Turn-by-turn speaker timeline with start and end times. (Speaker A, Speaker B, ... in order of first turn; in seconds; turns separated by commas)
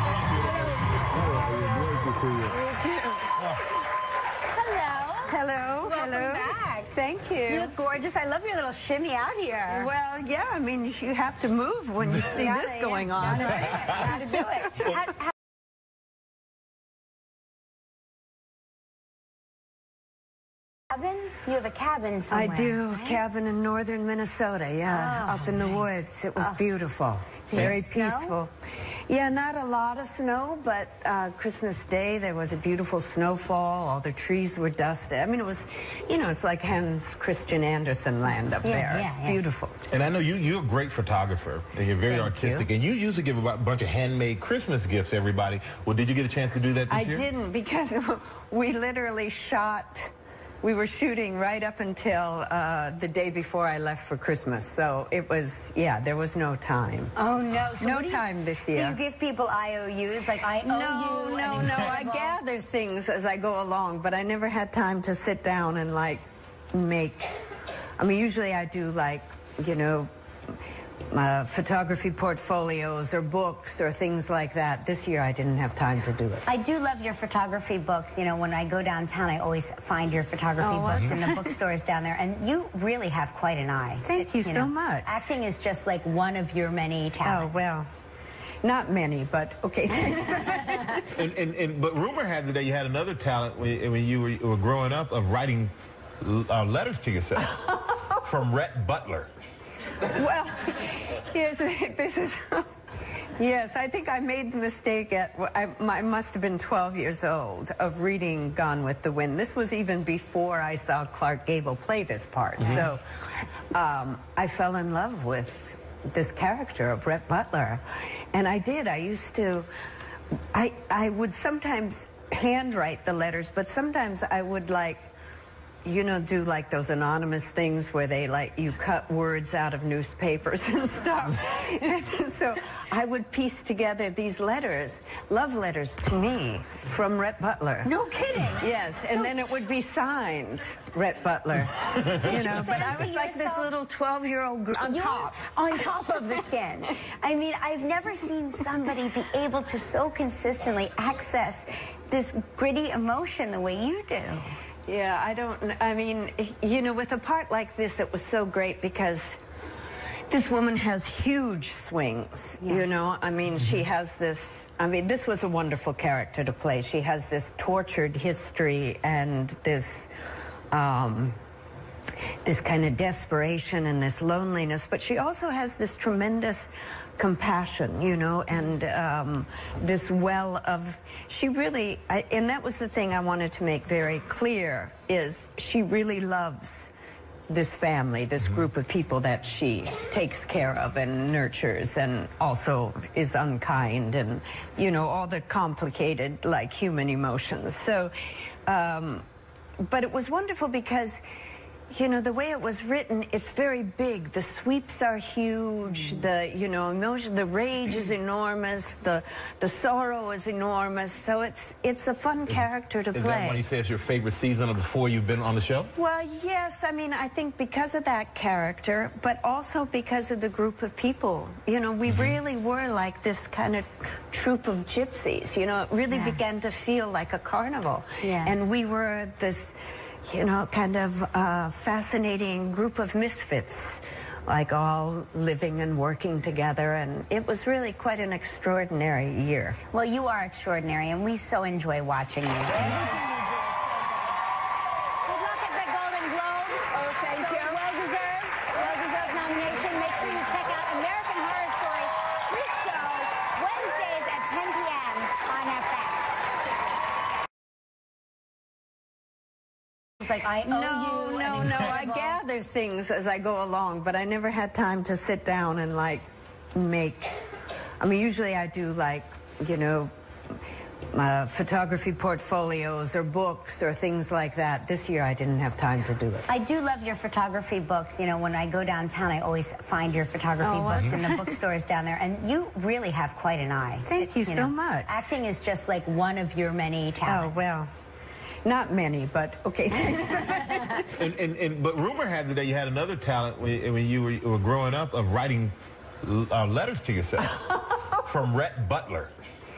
Speaker A: 0.4-2.0, Speaker B: 1.9-2.4, Speaker C: 2.5-3.4, Speaker A: 4.4-6.9, Speaker C: 5.2-7.7, Speaker A: 7.5-9.9, Speaker C: 9.7-15.0, Speaker A: 12.2-15.3, Speaker A: 20.9-23.2, Speaker C: 22.3-39.8, Speaker A: 24.9-26.6, Speaker A: 27.5-28.4, Speaker A: 38.6-39.4, Speaker B: 39.9-47.3, Speaker C: 42.0-42.7, Speaker C: 46.9-57.1, Speaker A: 57.1-62.4, Speaker C: 57.8-59.0, Speaker C: 60.6-67.4, Speaker C: 68.0-70.1, Speaker C: 71.1-76.5, Speaker A: 76.5-87.5, Speaker C: 80.6-81.6, Speaker C: 84.0-85.3, Speaker C: 87.2-87.9, Speaker C: 88.6-91.1, Speaker B: 91.1-99.3, Speaker C: 97.7-98.2, Speaker C: 100.0-119.7, Speaker C: 120.5-125.1, Speaker C: 125.8-137.9, Speaker A: 137.9-138.6, Speaker C: 138.5-145.4, Speaker A: 142.0-143.7, Speaker A: 144.8-154.5, Speaker C: 154.9-159.4, Speaker C: 160.3-170.1, Speaker A: 162.6-162.9, Speaker C: 170.7-171.4, Speaker C: 172.4-186.9, Speaker C: 187.5-199.2, Speaker C: 199.8-201.2, Speaker C: 201.9-213.6, Speaker B: 212.5-215.9, Speaker C: 215.9-239.8, Speaker B: 222.1-222.3, Speaker A: 226.1-226.4, Speaker A: 228.2-228.5, Speaker A: 239.9-244.4, Speaker A: 245.2-256.4, Speaker C: 246.9-247.9, Speaker A: 260.2-262.4, Speaker C: 260.6-267.4, Speaker C: 268.0-270.1, Speaker C: 271.1-276.5, Speaker A: 276.5-287.5, Speaker C: 280.6-281.6, Speaker C: 284.0-285.3, Speaker C: 287.2-287.9, Speaker C: 288.6-291.1, Speaker B: 291.1-299.3